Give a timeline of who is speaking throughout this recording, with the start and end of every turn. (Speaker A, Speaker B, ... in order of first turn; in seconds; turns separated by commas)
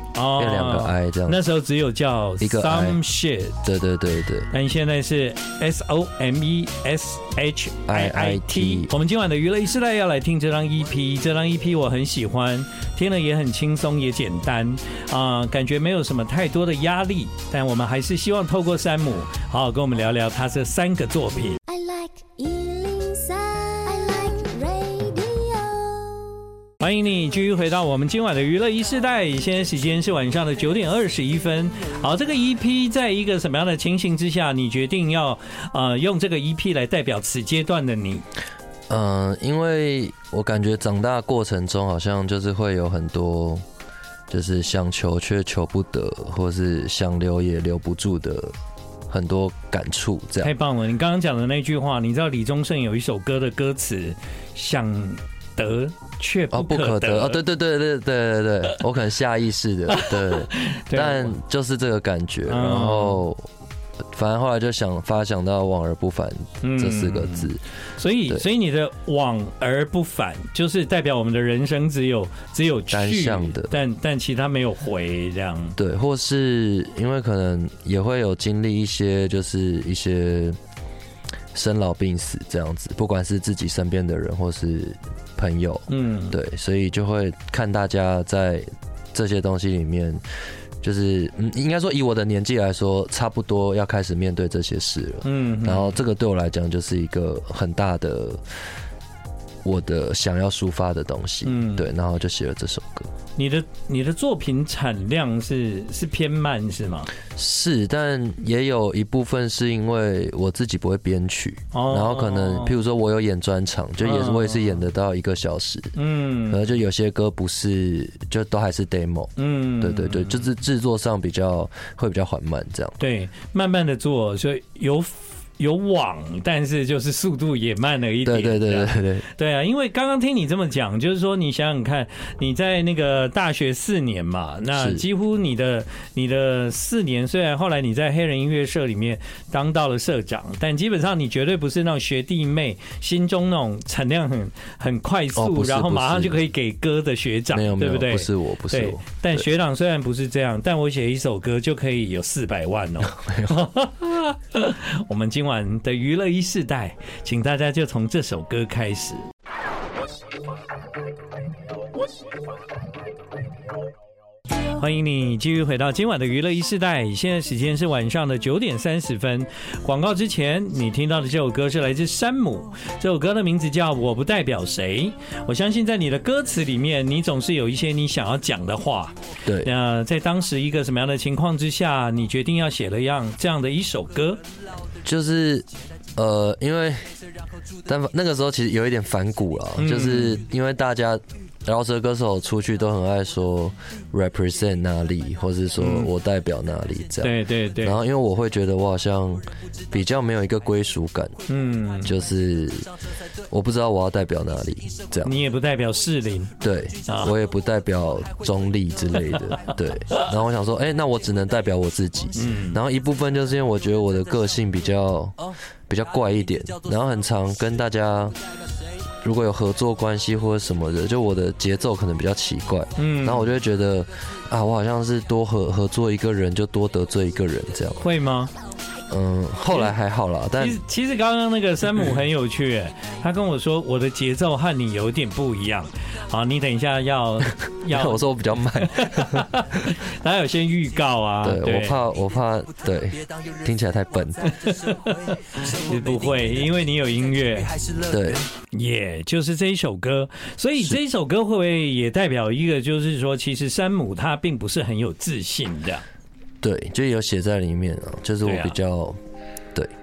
Speaker A: 0.1-3.5, Speaker B: 0.3-1.4, Speaker B: 2.4-3.0, Speaker B: 3.6-4.5, Speaker A: 4.5-21.6, Speaker B: 7.9-8.9, Speaker C: 21.7-26.5, Speaker A: 26.8-38.2, Speaker B: 38.9-43.6, Speaker B: 44.3-48.5, Speaker B: 49.1-50.5, Speaker A: 50.4-57.4, Speaker B: 56.5-63.5, Speaker A: 59.9-61.4, Speaker A: 62.5-63.2, Speaker B: 64.1-67.6, Speaker A: 66.6-75.8, Speaker B: 72.9-73.8, Speaker B: 75.8-80.6, Speaker B: 81.5-90.2, Speaker A: 85.9-86.4, Speaker B: 90.8-98.4, Speaker A: 95.2-96.0, Speaker B: 99.6-103.1, Speaker A: 101.4-101.9, Speaker A: 103.4-107.1, Speaker B: 107.4-115.9, Speaker A: 111.7-112.8, Speaker A: 114.0-114.8, Speaker A: 116.0-116.6, Speaker B: 116.5-123.0, Speaker A: 119.4-120.5, Speaker A: 123.0-159.2, Speaker B: 128.2-129.2, Speaker B: 134.7-135.1, Speaker B: 145.3-146.4, Speaker B: 147.5-149.4, Speaker B: 153.0-153.7, Speaker A: 164.6-184.4, Speaker B: 179.4-179.7, Speaker B: 185.0-185.7, Speaker B: 186.2-187.1, Speaker B: 187.9-201.3, Speaker A: 189.8-190.4, Speaker A: 195.8-196.1, Speaker A: 197.2-198.0, Speaker A: 201.5-202.1, Speaker B: 202.0-202.9, Speaker B: 203.5-205.4, Speaker A: 205.2-206.5, Speaker B: 206.6-215.4, Speaker A: 207.1-207.3, Speaker A: 212.3-212.8, Speaker B: 215.9-218.4, Speaker B: 219.2-228.0, Speaker A: 223.0-223.5, Speaker A: 228.0-228.5, Speaker B: 229.1-230.8, Speaker A: 229.7-229.9, Speaker A: 230.6-242.0, Speaker B: 237.9-239.5, Speaker B: 241.4-244.7, Speaker A: 244.4-247.9, Speaker B: 248.1-248.4, Speaker A: 248.7-256.0, Speaker B: 256.6-259.2, Speaker A: 258.4-258.8